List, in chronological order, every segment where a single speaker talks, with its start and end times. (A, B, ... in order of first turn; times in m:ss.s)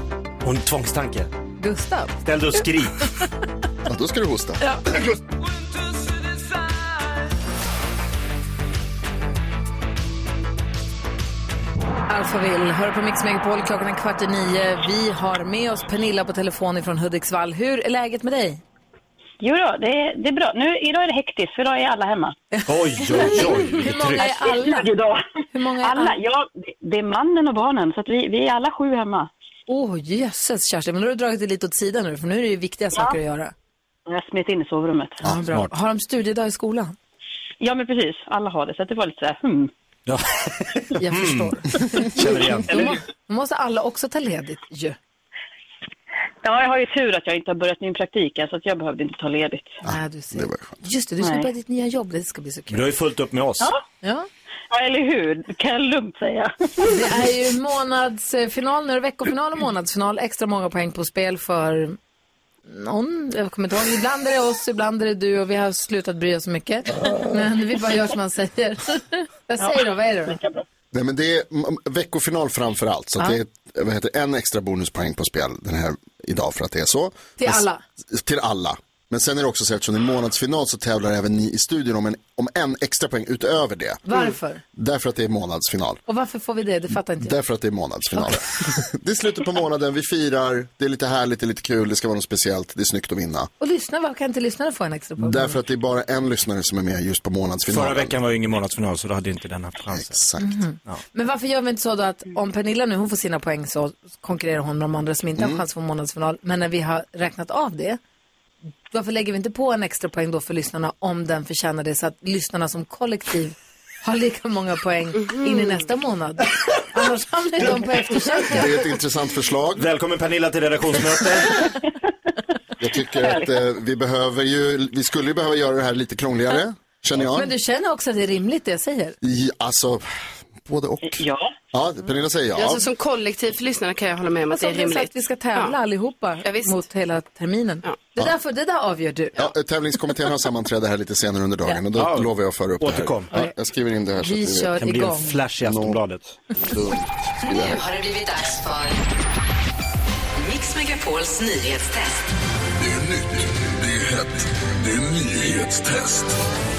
0:00.4-0:01.3 A
0:01.6-0:02.2 B
0:02.2-0:03.1 A
0:03.8-0:04.7 C
0:04.6-0:04.8 D
0:12.1-0:18.6 B
0:19.4-0:22.4 E
0:22.6-0:24.9 B
0:22.6-0:24.4 A
0:24.5-0:25.2 E
0:25.5-0:26.2 B
0:25.8-0:29.3 E
0:29.7-0:33.5 B
0:34.1-0:35.2 E
0:35.2-0:36.9 B
0:35.2-0:35.7 A
0:37.6-0:39.7 E
0:40.1-0:43.0 A
0:41.0-0:45.0 B
0:46.4-0:49.8 E
0:49.8-0:52.8 B
0:49.8-0:50.8 C
0:51.2-0:51.5 E
0:52.7-0:53.7 A
0:54.7-0:56.9 E
0:56.8-1:02.0 B
1:02.6-1:10.4 B
1:10.9-1:24.0 C
1:17.4-1:17.8 B
1:24.1-1:24.6 B
1:24.7-1:26.0 C
1:26.1-1:27.3 B
1:27.2-1:33.5 C
1:33.6-1:35.6 B
1:35.2-1:38.1 C
1:37.7-1:40.2 A
1:40.0-1:40.6 C
1:40.4-1:48.0 B
1:45.4-1:45.6 C
1:48.9-1:58.8 B
1:55.2-1:55.8 D
1:58.4-1:59.9 C
1:59.8-2:01.7 A
2:02.8-2:07.5 C
2:03.2-2:03.5 E
2:07.3-2:09.2 B
2:09.2-2:10.0 C
2:10.6-2:12.8 C
2:11.0-2:11.5 E
2:12.6-2:15.8 D
2:14.5-2:19.4 B
2:16.4-2:16.8 D
2:19.4-2:24.7 C
2:21.9-2:23.4 A
2:24.2-2:25.4 B
2:24.8-2:26.3 A
2:25.6-2:26.0 C
2:26.6-2:27.8 C
2:27.6-2:29.0 F
2:30.4-2:32.2 F
2:32.8-2:36.4 G